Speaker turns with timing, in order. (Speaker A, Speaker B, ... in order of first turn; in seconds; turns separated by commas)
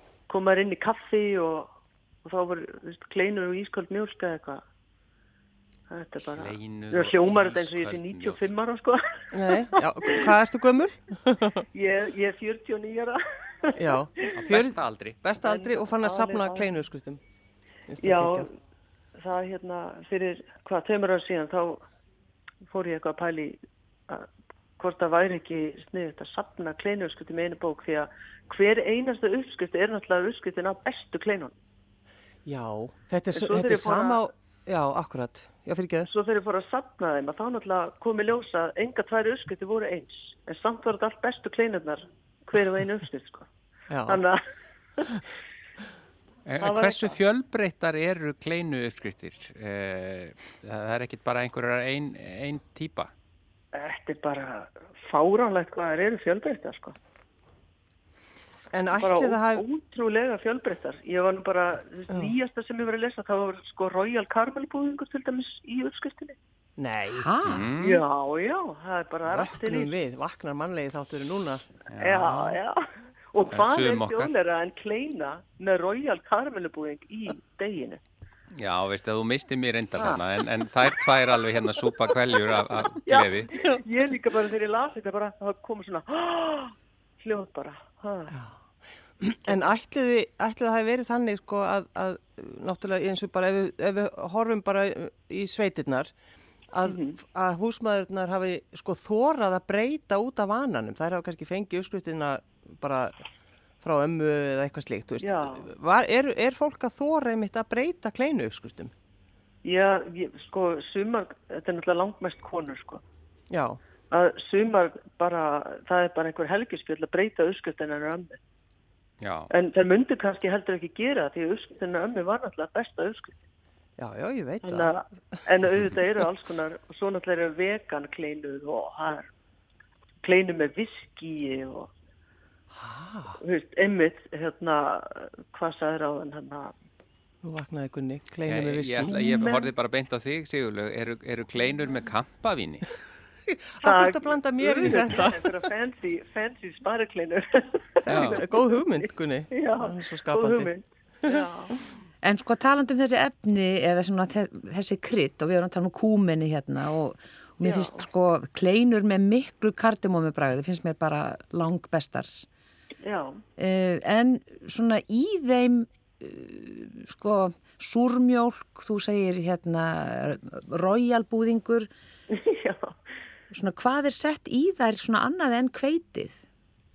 Speaker A: 0.3-1.7, Speaker A: 2.2-4.6, Speaker A: 5.9-9.0, Speaker B: 6.3-8.4, Speaker C: 9.3-11.6, Speaker A: 9.5-10.3, Speaker A: 11.7-14.5, Speaker C: 13.8-17.2, Speaker B: 14.3-15.2, Speaker A: 15.4-16.7, Speaker C: 17.9-18.5, Speaker A: 18.0-18.5, Speaker A: 19.2-21.8, Speaker A: 22.6-31.5, Speaker C: 32.5-36.1, Speaker A: 33.3-34.2, Speaker A: 36.1-43.5, Speaker C: 43.9-44.2, Speaker A: 44.1-44.4, Speaker A: 45.0-45.2, Speaker B: 46.5-53.1, Speaker A: 46.6-47.2, Speaker A: 53.7-56.9, Speaker C: 58.7-59.6, Speaker A: 58.9-66.3, Speaker C: 66.8-67.3, Speaker D: 67.2-67.7, Speaker B: 67.4-68.0, Speaker A: 67.8-69.9, Speaker C: 69.3-71.6, Speaker B: 71.9-72.6, Speaker A: 72.0-78.0, Speaker B: 73.5-74.3, Speaker B: 78.5-83.5, Speaker A: 83.0-88.3, Speaker C: 89.2-96.1, Speaker C: 96.7-103.2, Speaker A: 96.8-97.2, Speaker C: 103.8-108.9, Speaker A: 105.2-105.7, Speaker A: 109.6-113.0, Speaker C: 113.5-113.8, Speaker A: 114.1-118.4, Speaker B: 119.2-119.5, Speaker A: 119.5-123.3, Speaker C: 124.0-125.4, Speaker A: 124.6-129.3, Speaker A: 130.2-131.9, Speaker C: 132.7-133.4, Speaker A: 133.4-136.7, Speaker C: 137.4-139.6, Speaker B: 138.5-142.9, Speaker A: 139.1-139.6, Speaker C: 143.5-145.5, Speaker A: 143.8-151.8, Speaker B: 148.1-148.4, Speaker C: 148.1-150.7, Speaker D: 152.2-162.5, Speaker A: 157.6-158.0, Speaker A: 163.0-163.4, Speaker D: 163.6-171.9, Speaker A: 172.3-172.9, Speaker D: 173.5-176.4